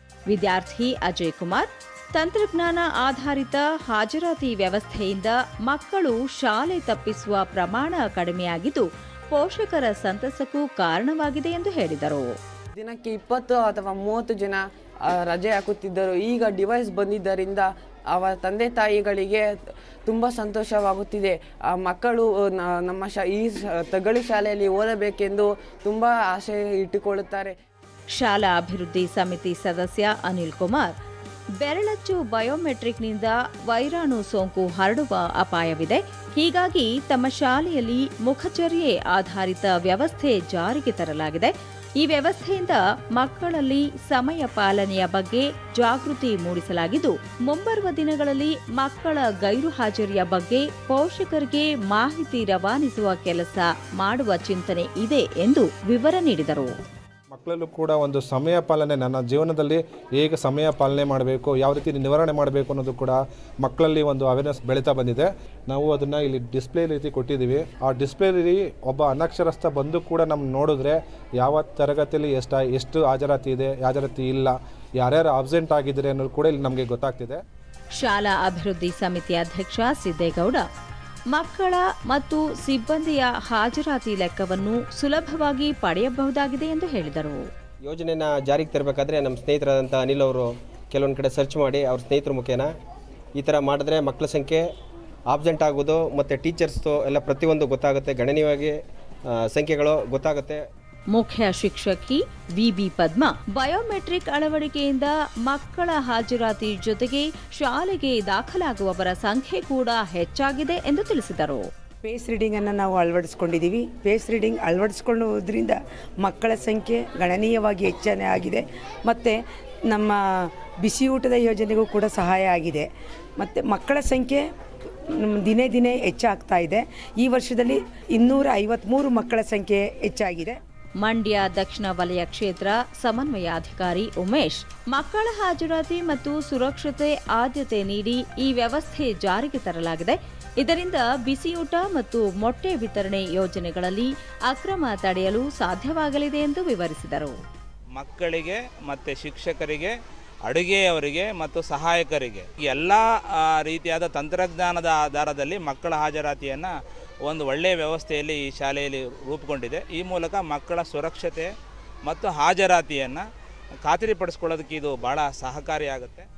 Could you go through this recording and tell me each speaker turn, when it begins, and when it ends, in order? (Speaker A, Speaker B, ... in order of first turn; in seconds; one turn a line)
Speaker A: 0.3-12.3
Speaker B: 12.7-27.6
Speaker A: 28.1-30.9
Speaker A: 31.6-56.7
Speaker C: 57.3-77.4
Speaker A: 78.0-80.6
Speaker A: 81.3-87.4
Speaker D: 87.8-92.7
Speaker D: 93.3-94.6
Speaker D: 95.3-98.8
Speaker D: 99.3-100.6
Speaker A: 101.1-111.7
Speaker E: 112.0-120.2
Speaker E: 120.8-122.9
Speaker E: 123.4-124.4
Speaker E: 125.2-130.6
Speaker A: 131.0-147.3
Speaker F: 147.9-149.9
Speaker F: 150.4-156.7
Speaker F: 157.2-161.5
Speaker F: 162.0-163.2
Speaker F: 163.8-166.2